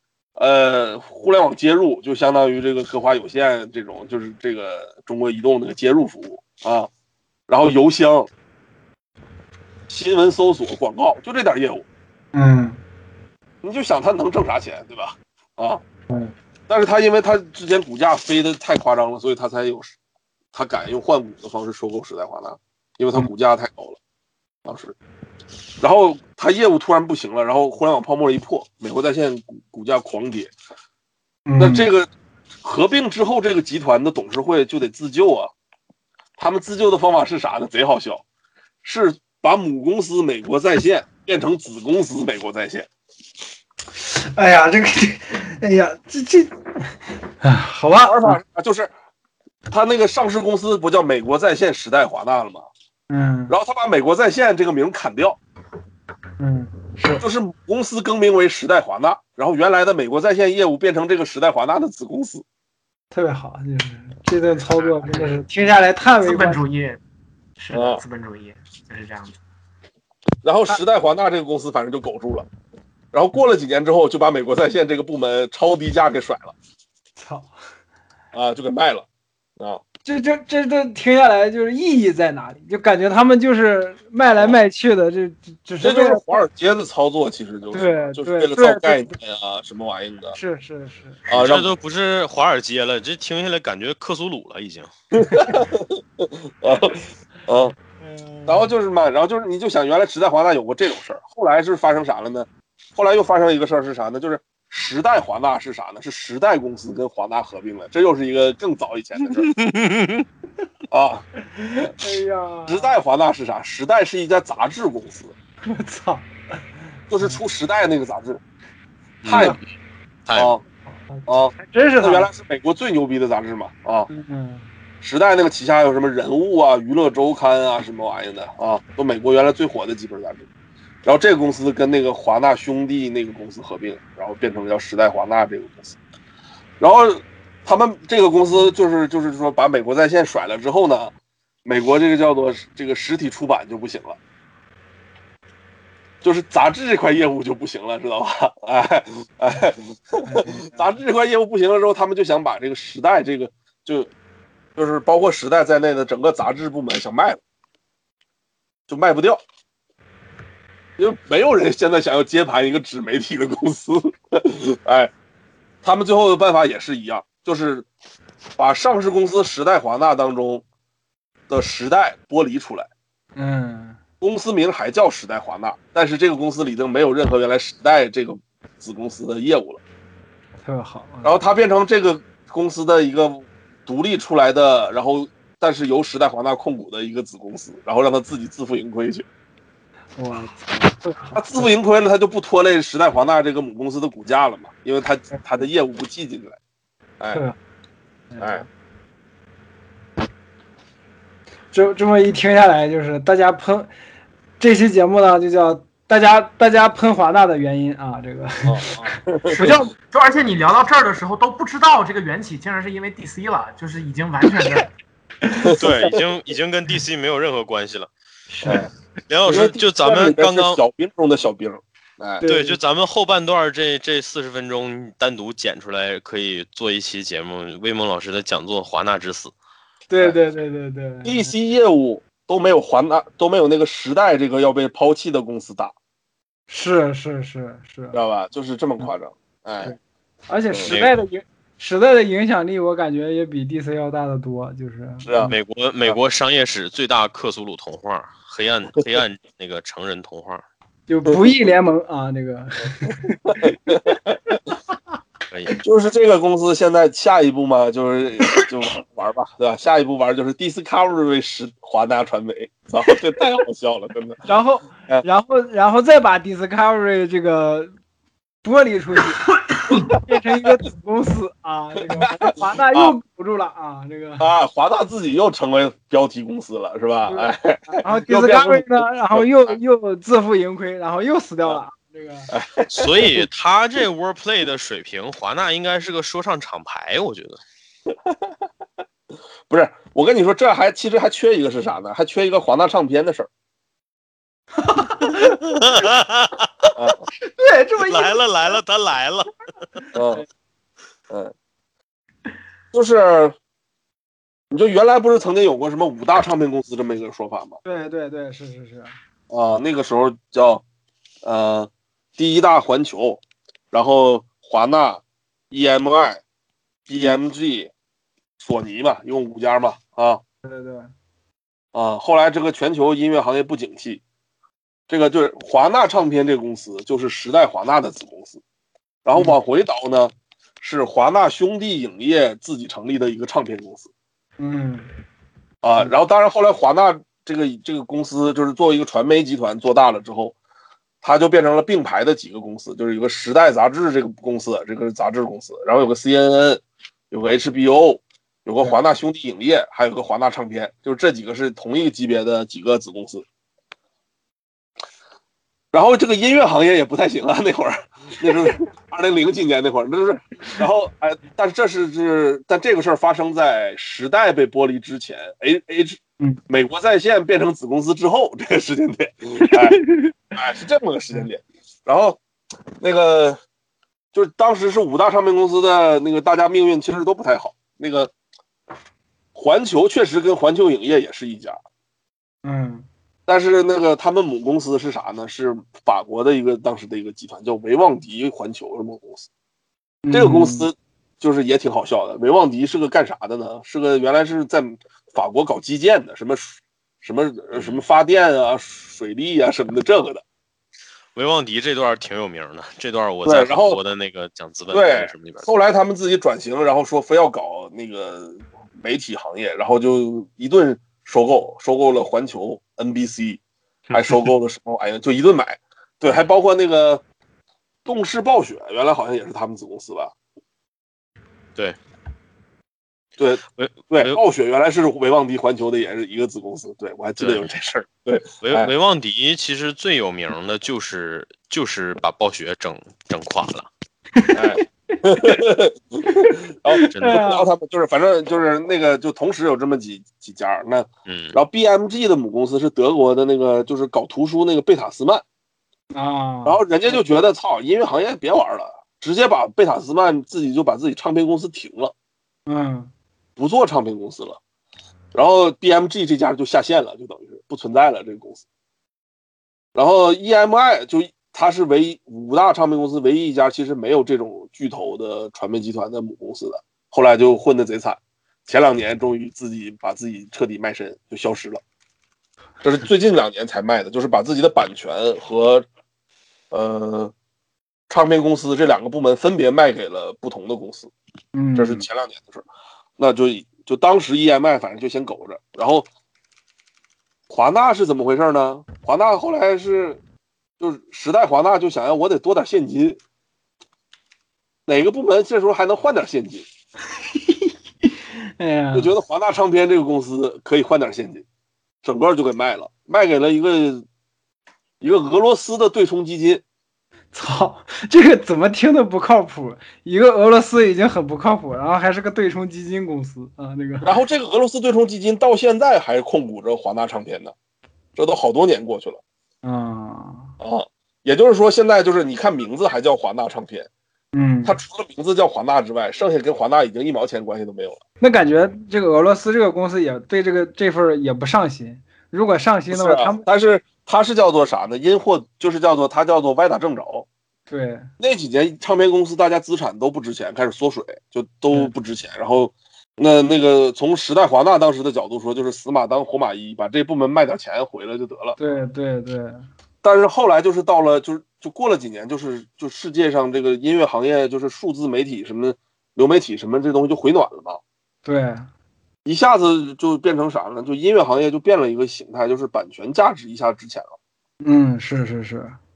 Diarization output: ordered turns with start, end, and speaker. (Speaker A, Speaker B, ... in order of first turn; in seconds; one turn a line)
Speaker A: 0.4-6.9
Speaker A: 7.5-8.3
Speaker A: 9.9-11.8
Speaker B: 12.3-12.8
Speaker A: 13.6-15.8
Speaker A: 16.7-20.0
Speaker A: 20.5-24.0
Speaker A: 24.6-24.9
Speaker A: 25.8-30.5
Speaker B: 31.5-31.9
Speaker A: 31.6-32.1
Speaker A: 32.6-35.5
Speaker A: 36.4-38.2
Speaker A: 38.8-42.9
Speaker B: 44.0-46.6
Speaker B: 47.4-48.4
Speaker A: 48.0-48.9
Speaker A: 49.7-52.7
Speaker B: 53.1-53.5
Speaker A: 53.5-55.4
Speaker B: 56.4-57.2
Speaker A: 57.2-62.4
Speaker B: 63.1-66.6
Speaker C: 64.7-65.4
Speaker C: 66.2-67.0
Speaker C: 67.6-69.4
Speaker A: 67.7-68.0
Speaker A: 70.4-72.5
Speaker A: 73.1-76.5
Speaker B: 77.2-77.5
Speaker A: 78.3-79.1
Speaker B: 80.0-86.4
Speaker A: 85.8-90.4
Speaker B: 87.7-89.1
Speaker B: 90.3-91.3
Speaker A: 91.3-91.7
Speaker D: 91.3-94.9
Speaker A: 95.1-97.8
Speaker B: 98.0-98.7
Speaker A: 98.5-109.5
Speaker D: 109.3-110.3
Speaker A: 110.9-111.2
Speaker B: 111.5-113.0
Speaker A: 112.7-115.3
Speaker B: 115.7-116.3
Speaker A: 117.1-118.4
Speaker D: 119.2-119.6
Speaker A: 119.2-119.6
Speaker B: 119.3-119.6
Speaker D: 120.3-120.6
Speaker A: 120.4-120.6
Speaker B: 121.0-122.3
Speaker A: 121.3-124.1
Speaker B: 124.1-124.7
Speaker A: 125.0-130.5
Speaker A: 131.0-136.0
Speaker A: 136.8-141.1
Speaker A: 141.7-144.2
Speaker A: 146.2-154.1
Speaker B: 150.2-150.9
Speaker A: 154.8-157.4
Speaker A: 158.9-159.4
Speaker A: 161.0-165.1
Speaker A: 165.8-167.9
Speaker A: 168.6-170.6
Speaker A: 171.5-172.9
Speaker B: 173.4-174.0
Speaker A: 174.2-179.8
Speaker B: 180.6-181.4
Speaker A: 181.2-189.2
Speaker B: 190.2-191.7
Speaker A: 191.3-196.6
Speaker B: 198.3-198.7
Speaker A: 198.4-198.7
Speaker B: 201.7-203.9
Speaker B: 204.6-209.9
Speaker A: 208.6-209.7
Speaker C: 209.5-214.9
Speaker B: 215.5-215.9
Speaker A: 215.6-216.2
Speaker D: 215.8-218.1
Speaker A: 218.7-218.9
Speaker D: 219.3-220.8
Speaker A: 219.4-222.4
Speaker B: 222.4-222.8
Speaker D: 222.5-229.5
Speaker B: 230.1-231.5
Speaker A: 231.2-235.9
Speaker B: 236.7-238.2
Speaker A: 238.1-239.9
Speaker B: 240.5-245.5
Speaker A: 240.7-241.0
Speaker D: 240.9-241.1
Speaker A: 245.2-246.2
Speaker D: 245.5-250.6
Speaker B: 251.1-254.1
Speaker A: 251.3-251.5
Speaker A: 253.1-254.4
Speaker D: 255.5-255.8
Speaker A: 255.8-264.4
Speaker B: 264.4-267.9
Speaker B: 268.6-274.5
Speaker A: 272.2-273.1
Speaker A: 274.4-279.8
Speaker B: 277.3-282.5
Speaker A: 282.5-283.5
Speaker D: 282.9-287.6
Speaker A: 288.1-288.4
Speaker A: 289.7-293.5
Speaker B: 294.8-295.8
Speaker D: 295.5-296.7
Speaker A: 296.9-297.2
Speaker B: 297.4-298.8
Speaker D: 298.1-299.5
Speaker B: 300.0-300.4
Speaker A: 300.1-300.4
Speaker A: 302.9-303.6
Speaker A: 304.7-307.8
Speaker B: 307.9-309.1
Speaker A: 309.5-310.8
Speaker A: 311.4-316.4
Speaker A: 317.1-317.9
Speaker A: 318.6-320.4
Speaker B: 320.6-321.1
Speaker A: 321.9-324.2
Speaker A: 325.1-328.6
Speaker A: 329.2-334.1
Speaker B: 334.6-335.1
Speaker A: 335.8-340.6
Speaker A: 341.2-353.4
Speaker A: 355.9-372.4
Speaker B: 369.6-370.4
Speaker A: 373.0-373.6
Speaker A: 374.3-378.3
Speaker A: 379.6-381.8
Speaker B: 382.6-383.1
Speaker A: 383.5-389.5
Speaker B: 390.2-390.9
Speaker A: 390.3-400.4
Speaker D: 397.7-398.0
Speaker D: 401.4-405.7
Speaker A: 403.4-404.0
Speaker A: 404.9-413.6
Speaker D: 414.1-414.4
Speaker A: 414.1-417.2
Speaker A: 418.1-420.3
Speaker A: 423.4-428.9
Speaker D: 423.8-424.4
Speaker D: 427.4-427.7
Speaker D: 428.6-433.9
Speaker B: 434.4-435.6
Speaker A: 434.5-445.4
Speaker B: 436.4-437.7
Speaker D: 437.1-437.4
Speaker D: 441.3-441.6
Speaker B: 446.1-446.8
Speaker A: 446.7-452.1
Speaker B: 452.7-453.1
Speaker A: 453.6-454.6
Speaker A: 455.3-458.6
Speaker A: 459.9-471.8
Speaker A: 472.8-475.9
Speaker A: 476.7-477.3
Speaker A: 478.1-481.1
Speaker B: 481.5-482.1
Speaker A: 481.8-482.6
Speaker A: 483.2-486.1
Speaker A: 487.5-490.2
Speaker A: 490.8-493.2
Speaker A: 494.9-496.7
Speaker B: 497.3-499.1
Speaker A: 498.9-501.4
Speaker A: 502.0-504.1
Speaker A: 505.0-506.6
Speaker B: 507.3-514.1
Speaker A: 514.0-517.5
Speaker A: 518.2-519.2
Speaker B: 519.6-520.5
Speaker A: 520.6-523.9
Speaker B: 524.4-524.8
Speaker A: 524.6-528.0
Speaker B: 528.2-533.5
Speaker A: 532.9-537.3
Speaker B: 537.7-538.1
Speaker A: 538.2-548.6
Speaker B: 548.6-549.7
Speaker A: 550.0-557.8
Speaker B: 558.2-558.7
Speaker A: 559.2-564.1
Speaker B: 564.6-565.8